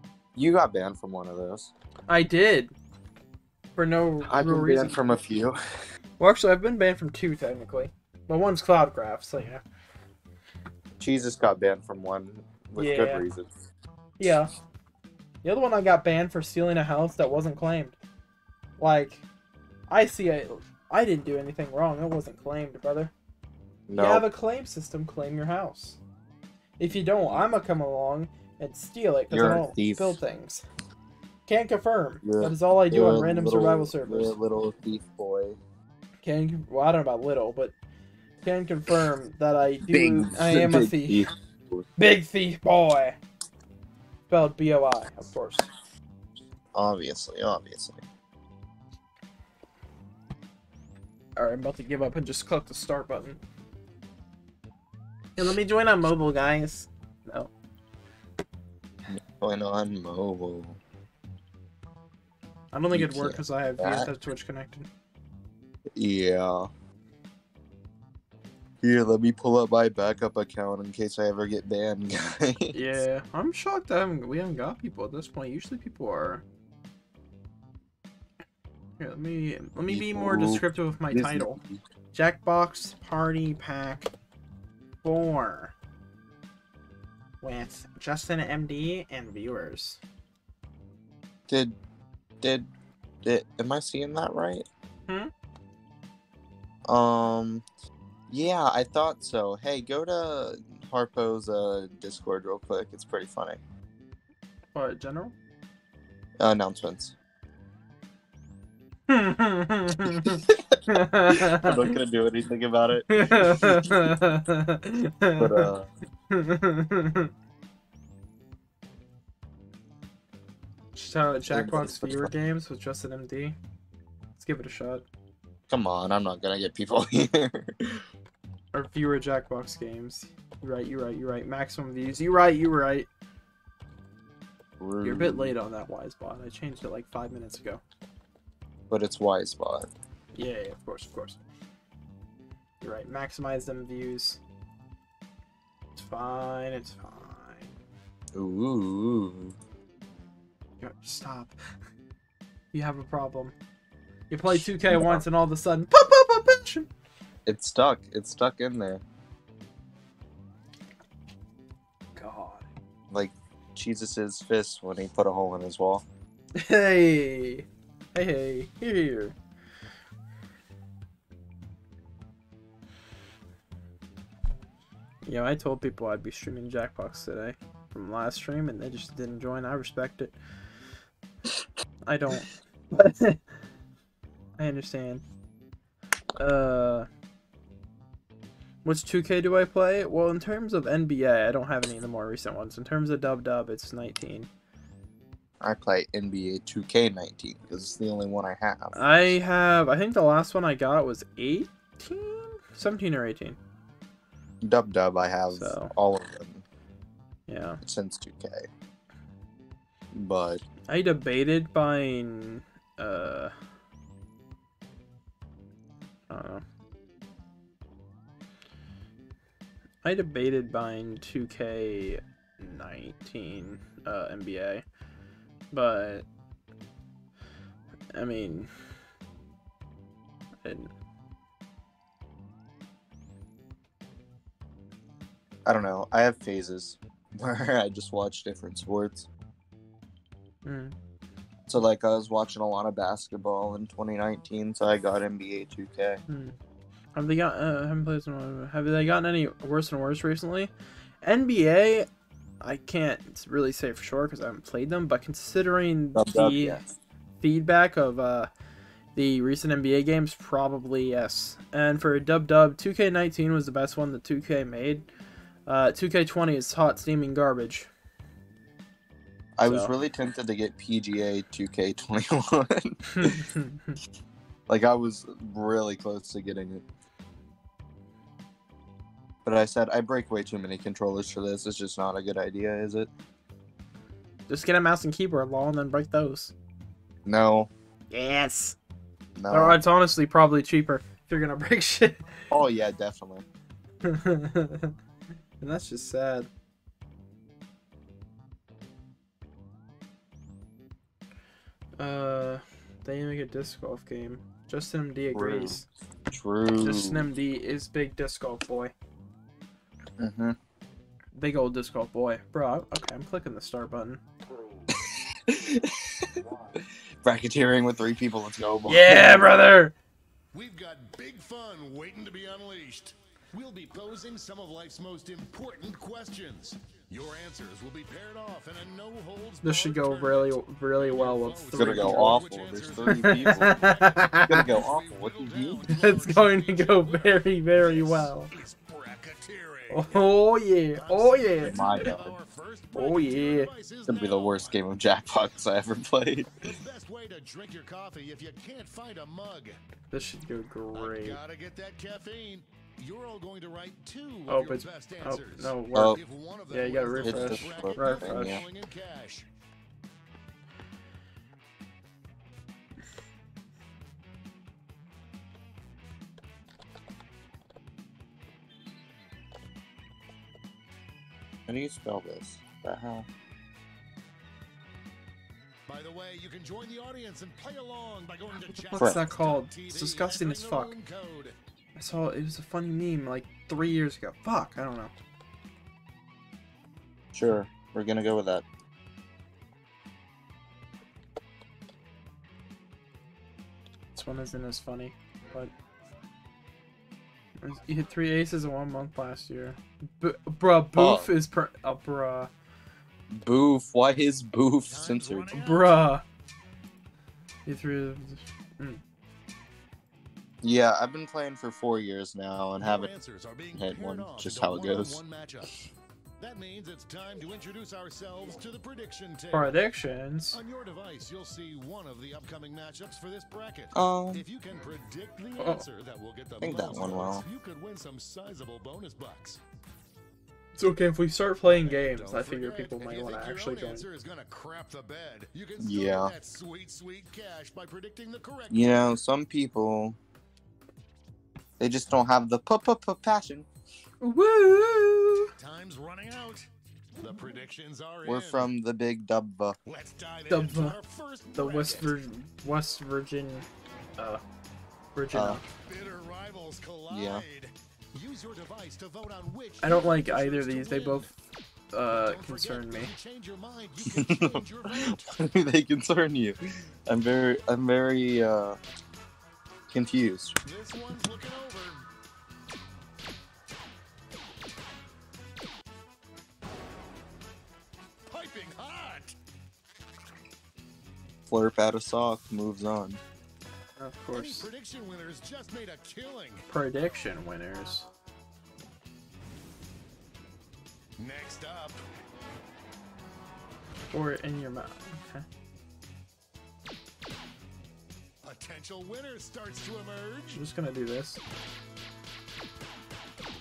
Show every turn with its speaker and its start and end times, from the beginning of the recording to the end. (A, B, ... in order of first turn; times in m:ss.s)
0:00.4-0:01.7 A
0:02.1-0:02.7 B
0:03.8-0:05.1 B
0:04.2-0:05.6 A
0:06.2-0:09.6 B
0:11.0-0:13.5 A
0:12.8-0:13.3 B
0:14.2-0:14.5 B
0:15.4-0:18.0 B
0:18.8-0:19.2 B
0:19.9-0:23.1 B
0:23.9-0:24.3 A
0:24.0-0:26.0 B
0:26.8-0:30.6 B
0:27.2-0:27.6 A
0:29.3-0:30.2 A
0:31.5-0:34.4 B
0:32.2-0:35.6 A
0:36.2-0:37.8 B
0:38.4-0:41.3 B
0:39.9-0:41.9 A
0:42.0-0:43.2 B
0:44.3-0:45.7 B
0:46.7-0:48.0 A
0:51.4-0:53.4 B
0:55.4-0:57.5 B
0:59.1-1:00.8 A
1:02.7-1:04.9 B
1:02.9-1:04.1 A
1:05.9-1:06.7 A
1:08.8-1:13.0 A
1:12.7-1:16.4 B
1:19.0-1:21.6 B
1:19.9-1:21.8 A
1:22.1-1:24.1 B
1:25.0-1:25.7 B
1:27.4-1:30.0 B
1:31.5-1:31.8 A
1:32.4-1:32.7 A
1:33.2-1:34.7 A
1:36.9-1:37.6 A
1:38.3-1:43.6 A
1:44.8-1:45.3 B
1:46.4-1:47.2 A
1:49.1-1:52.0 B
1:50.0-1:54.2 A
1:53.1-1:55.7 B
1:55.4-1:55.9 A
1:56.3-1:57.3 B
2:01.0-2:03.6 B
2:01.5-2:02.3 A
2:04.4-2:05.1 B
2:05.7-2:08.0 A
2:08.7-2:13.1 B
2:14.8-2:15.6 A
2:15.0-2:17.8 B
2:18.9-2:19.9 A
2:20.4-2:21.4 B
2:22.8-2:24.4 B
2:26.0-2:27.7 B
2:28.3-2:29.6 A
2:30.8-2:31.6 B
2:32.7-2:33.5 B
2:34.3-2:36.9 B
2:34.5-2:35.2 A
2:37.5-2:39.0 A
2:42.2-2:42.7 B
2:43.1-2:46.0 A
2:46.6-2:49.4 B
2:55.2-3:00.4 B
3:02.0-3:03.6 B
3:04.6-3:05.2 B
3:06.4-3:07.1 B
3:08.8-3:14.5 B
3:15.6-3:19.0 A
3:19.0-3:23.6 B
3:24.6-3:26.6 A
3:25.5-3:25.9 B
3:27.5-3:27.8 B
3:27.8-3:28.7 A
3:30.1-3:30.6 A
3:30.9-3:33.5 B
3:36.3-3:36.6 B
3:40.0-3:44.8 B
3:45.7-3:46.3 B
3:48.1-3:48.7 B
3:50.6-3:50.9 B
3:55.7-3:59.3 A
4:00.6-4:01.0 B
4:01.7-4:06.2 A
4:06.3-4:06.6 B
4:07.2-4:12.1 B
4:12.6-4:16.8 B
4:16.2-4:16.9 A
4:17.4-4:18.5 B
4:19.2-4:25.1 B
4:25.7-4:27.9 B
4:29.6-4:33.4 A
4:29.6-4:29.9 B
4:33.2-4:34.0 B
4:34.7-4:36.8 A
4:39.4-4:43.1 A
4:44.5-4:46.5 B
4:47.3-4:47.7 A
4:48.1-4:48.8 B
4:49.4-4:49.8 A
4:49.5-4:52.5 B
4:52.5-4:53.4 A
4:54.0-4:55.0 B
4:55.6-4:56.5 B
5:02.0-5:05.8 B
5:05.3-5:07.3 A
5:06.8-5:08.9 B
5:10.2-5:10.6 A
5:11.3-5:14.2 B
5:14.9-5:19.5 A
5:18.8-5:19.9 B
5:20.5-5:33.9 C
5:29.6-5:32.4 B
5:31.8-5:35.8 A
5:33.1-5:34.7 B
5:34.7-5:40.4 C
5:35.9-5:38.5 B
5:39.9-5:41.8 B
5:40.9-5:44.8 C
5:41.6-5:42.4 A
5:43.0-5:43.7 B
5:44.1-5:46.7 A
5:46.6-5:49.8 C
5:50.1-5:51.4 B
5:50.9-5:59.5 C
5:54.5-5:56.2 B
5:56.7-5:58.6 B
5:57.2-5:58.6 A
6:11.7-6:13.3 A
6:15.9-6:21.6 C
6:18.7-6:20.9 B
6:22.0-6:25.1 B
6:27.3-6:28.6 A
6:34.1-6:35.7 B
6:37.6-6:42.5 B
6:41.0-6:41.3 A
6:43.3-6:45.5 A
6:44.9-6:46.1 C
6:45.5-6:46.2 B
6:47.7-6:49.0 B
6:50.6-6:53.1 A
6:52.8-6:55.8 C
6:53.7-6:55.2 A
6:56.4-6:59.8 C
6:59.5-7:00.6 B
7:00.5-7:09.6 C
7:03.9-7:04.4 A
7:05.6-7:05.8 B
7:06.6-7:07.4 A
7:10.8-7:14.1 B
7:11.6-7:19.1 C
7:15.8-7:16.3 A
7:18.7-7:20.2 A
7:21.8-7:23.7 A
7:24.2-7:25.5 B
7:25.6-7:28.7 C
7:28.2-7:29.8 A
7:29.9-7:32.1 C
7:30.5-7:31.0 B
7:31.6-7:33.7 B
7:35.2-7:35.6 B
7:35.3-7:35.6 A
7:35.8-7:41.3 C
7:37.1-7:37.4 A
7:39.8-7:41.3 B
7:41.9-7:43.1 B
7:42.1-7:45.4 C
7:44.0-7:48.8 A
7:49.9-7:50.6 A
7:50.6-7:52.0 C
7:58.3-7:59.4 C
8:01.5-8:03.2 A
8:04.0-8:04.7 B
8:04.3-8:06.6 C
8:06.7-8:08.1 B
8:11.2-8:12.0 C
8:14.1-8:15.5 B
8:18.4-8:20.6 C
8:20.6-8:21.4 B